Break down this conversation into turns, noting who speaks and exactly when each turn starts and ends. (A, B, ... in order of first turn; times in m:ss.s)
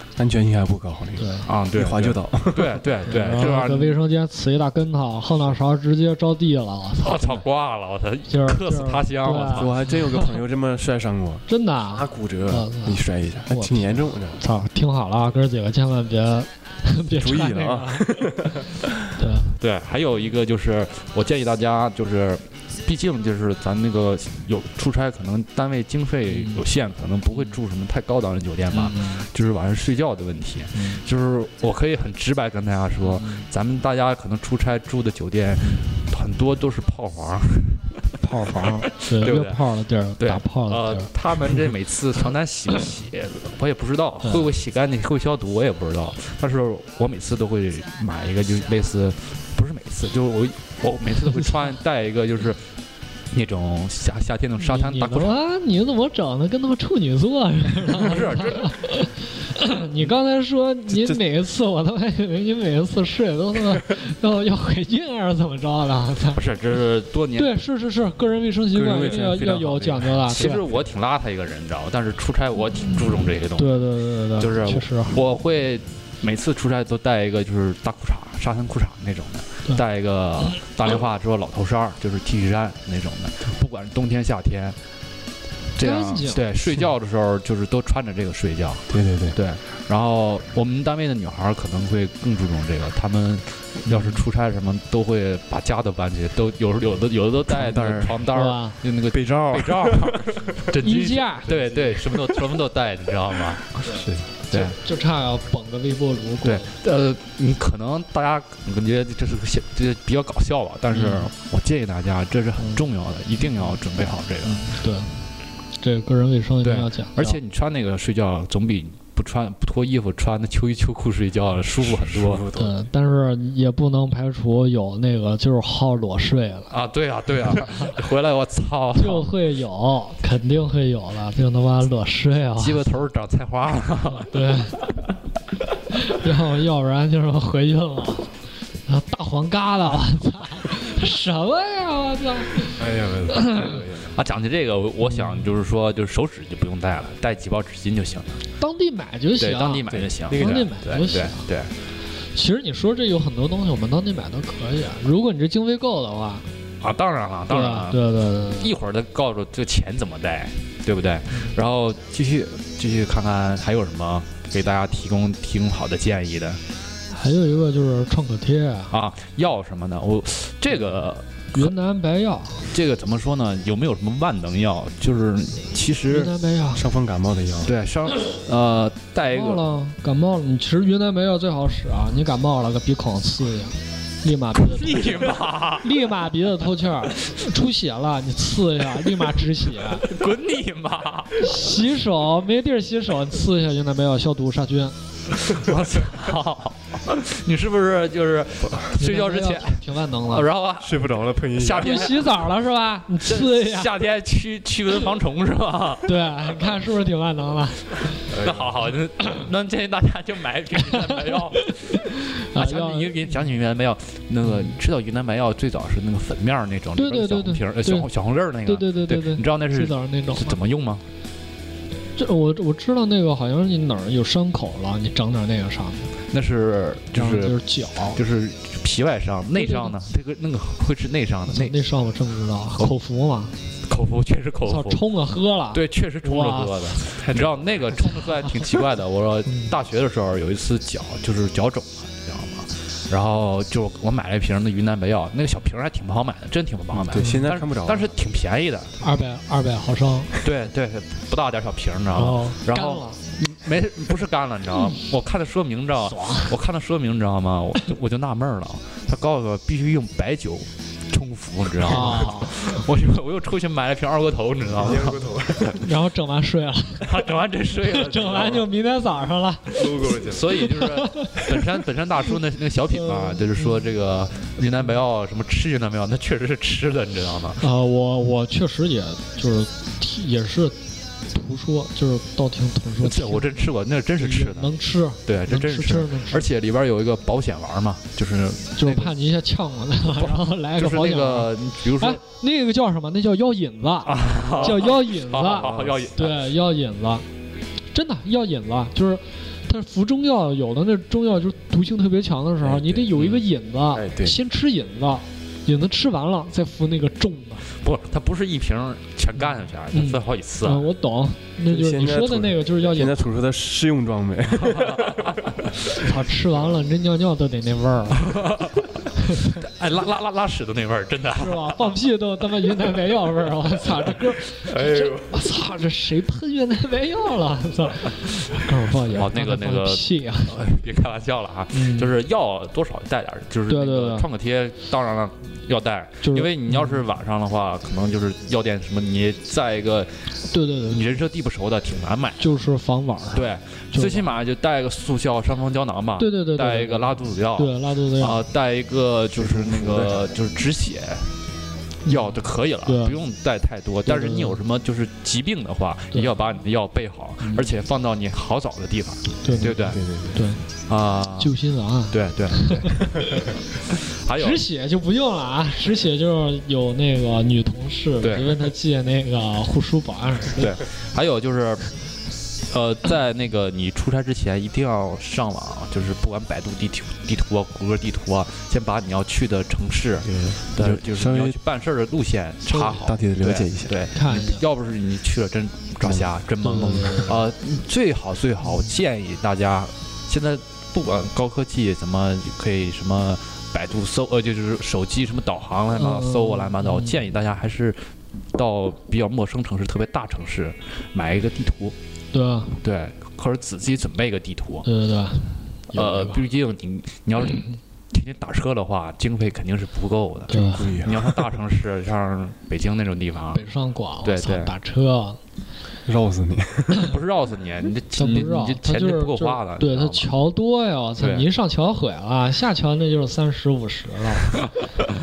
0:00.2-0:02.9 A
0:01.2-0:01.5 B
0:01.5-0:04.0 C
0:03.1-0:07.4 B
0:07.0-0:09.7 C
0:08.3-0:10.2 B
0:09.5-0:14.4 A
0:11.5-0:18.1 B
0:17.2-0:18.9 A
0:19.2-0:19.5 B
0:19.6-0:38.0 C
0:26.3-0:26.6 B
0:28.7-0:29.2 B
0:30.7-0:31.0 B
0:33.0-0:33.4 B
0:38.2-0:41.1 B
0:38.8-0:39.6 C
0:40.2-0:52.6 C
0:44.2-0:44.5 B
0:53.3-0:55.4 C
0:54.6-1:06.4 B
0:57.9-0:58.8 C
1:00.9-1:01.2 A
1:06.3-1:07.5 C
1:07.4-1:10.6 B
1:08.7-1:10.6 A
1:10.3-1:13.7 C
1:13.6-1:15.2 B
1:14.4-1:24.8 C
1:25.8-1:43.8 C
1:25.8-1:26.8 B
1:28.9-1:29.4 A
1:33.9-1:34.2 B
1:37.5-1:38.2 A
1:38.3-1:38.8 B
1:39.1-1:40.7 A
1:40.8-1:41.8 B
1:41.8-1:42.2 A
1:43.8-1:44.3 A
1:44.5-1:44.8 C
1:44.5-1:46.7 B
1:46.4-1:54.6 C
1:50.9-1:51.3 B
1:52.6-1:52.8 B
1:54.4-1:55.2 B
1:55.8-1:57.4 B
1:56.6-2:02.4 C
2:01.8-2:02.7 A
2:02.5-2:06.7 B
2:06.7-2:09.3 C
2:09.0-2:12.8 B
2:12.6-2:14.3 C
2:14.2-2:14.9 B
2:15.9-2:18.3 B
2:18.8-2:22.8 B
2:22.8-2:24.2 A
2:24.1-2:28.4 C
2:25.1-2:25.4 B
2:28.6-2:31.4 B
2:29.4-2:31.7 C
2:29.9-2:30.6 A
2:32.3-2:36.4 B
2:36.8-2:38.0 C
2:37.5-2:38.7 B
2:38.6-2:46.6 C
2:47.1-2:48.9 B
2:48.9-2:51.7 C
2:51.5-2:52.7 B
2:52.7-2:56.3 C
2:56.1-2:56.8 B
2:56.7-2:57.7 A
2:57.6-2:59.6 C
2:59.3-3:10.1 B
3:04.6-3:06.0 C
3:10.0-3:11.6 C
3:11.4-3:14.9 B
3:15.4-3:22.3 C
3:19.0-3:20.5 B
3:20.8-3:22.0 A
3:21.8-3:23.9 B
3:23.2-3:26.1 C
3:26.0-3:28.2 B
3:28.3-3:28.7 A
3:28.4-3:41.0 C
3:31.1-3:33.3 B
3:34.5-3:34.7 B
3:37.0-3:38.1 B
3:38.6-3:40.6 B
3:42.2-3:46.1 B
3:46.3-3:47.6 C
3:47.1-3:48.2 B
3:48.1-3:51.7 C
3:49.6-3:49.9 B
3:51.5-3:53.5 B
3:53.8-3:55.0 C
3:54.6-3:57.0 B
3:55.7-4:08.9 C
3:57.2-3:57.8 A
3:58.2-3:58.6 B
4:06.9-4:08.2 A
4:07.2-4:07.5 B
4:09.0-4:10.4 B
4:10.4-4:25.8 C
4:12.1-4:13.2 B
4:16.0-4:16.5 B
4:21.8-4:22.6 B
4:24.8-4:25.8 A
4:25.8-4:27.2 B
4:27.0-4:28.7 C
4:27.8-4:30.1 B
4:29.7-4:30.6 A
4:29.8-4:37.6 C
4:30.6-4:31.4 B
4:33.0-4:33.6 B
4:37.6-4:40.8 B
4:41.3-4:43.5 B
4:43.0-4:44.7 C
4:44.2-4:46.5 B
4:45.2-4:49.1 C
4:48.8-4:57.2 B
4:50.2-4:52.2 C
4:54.0-4:56.4 C
4:57.9-5:07.7 B
5:02.6-5:03.1 A
5:03.2-5:03.4 C
5:03.9-5:04.4 A
5:07.8-5:10.9 C
5:09.9-5:13.2 B
5:11.7-5:15.4 A
5:14.6-5:15.5 C
5:15.9-5:18.3 B
5:18.2-5:18.9 C
5:19.2-5:19.6 B
5:19.6-5:21.8 C
5:21.4-5:30.6 B
5:24.9-5:25.2 A
5:29.1-5:40.2 C
5:31.7-5:32.1 B
5:33.7-5:34.2 B
5:36.2-5:37.0 B
5:40.5-5:41.0 B
5:40.9-5:42.4 C
5:42.4-5:44.3 B
5:43.3-5:51.3 C
5:46.2-5:48.4 B
5:49.4-5:50.3 A
5:52.0-5:53.2 B
5:52.1-6:00.0 C
5:54.0-5:54.6 B
5:57.4-5:57.7 B
5:59.4-5:59.8 B
5:59.6-6:00.4 A
6:00.3-6:00.6 B
6:00.9-6:01.5 C
6:01.4-6:03.1 B
6:02.1-6:03.2 C
6:04.0-6:04.6 C
6:04.3-6:10.8 B
6:08.2-6:08.6 C
6:10.6-6:11.9 C
6:12.7-6:38.0 C
6:20.2-6:21.6 A
6:22.7-6:23.0 B
6:22.8-6:24.0 A
6:24.1-6:24.6 B
6:26.0-6:27.2 A
6:26.6-6:27.4 B
6:36.0-6:37.2 B
6:38.5-6:41.9 C
6:42.3-6:42.8 B
6:42.8-6:44.8 C
6:44.8-6:46.4 B
6:45.9-6:53.6 C
6:50.5-6:51.0 B
6:50.5-6:51.5 A
6:53.5-6:55.4 B
6:54.2-6:54.7 C
6:56.0-6:57.1 A
6:57.0-7:00.3 C
6:58.2-7:04.7 B
7:01.2-7:01.5 C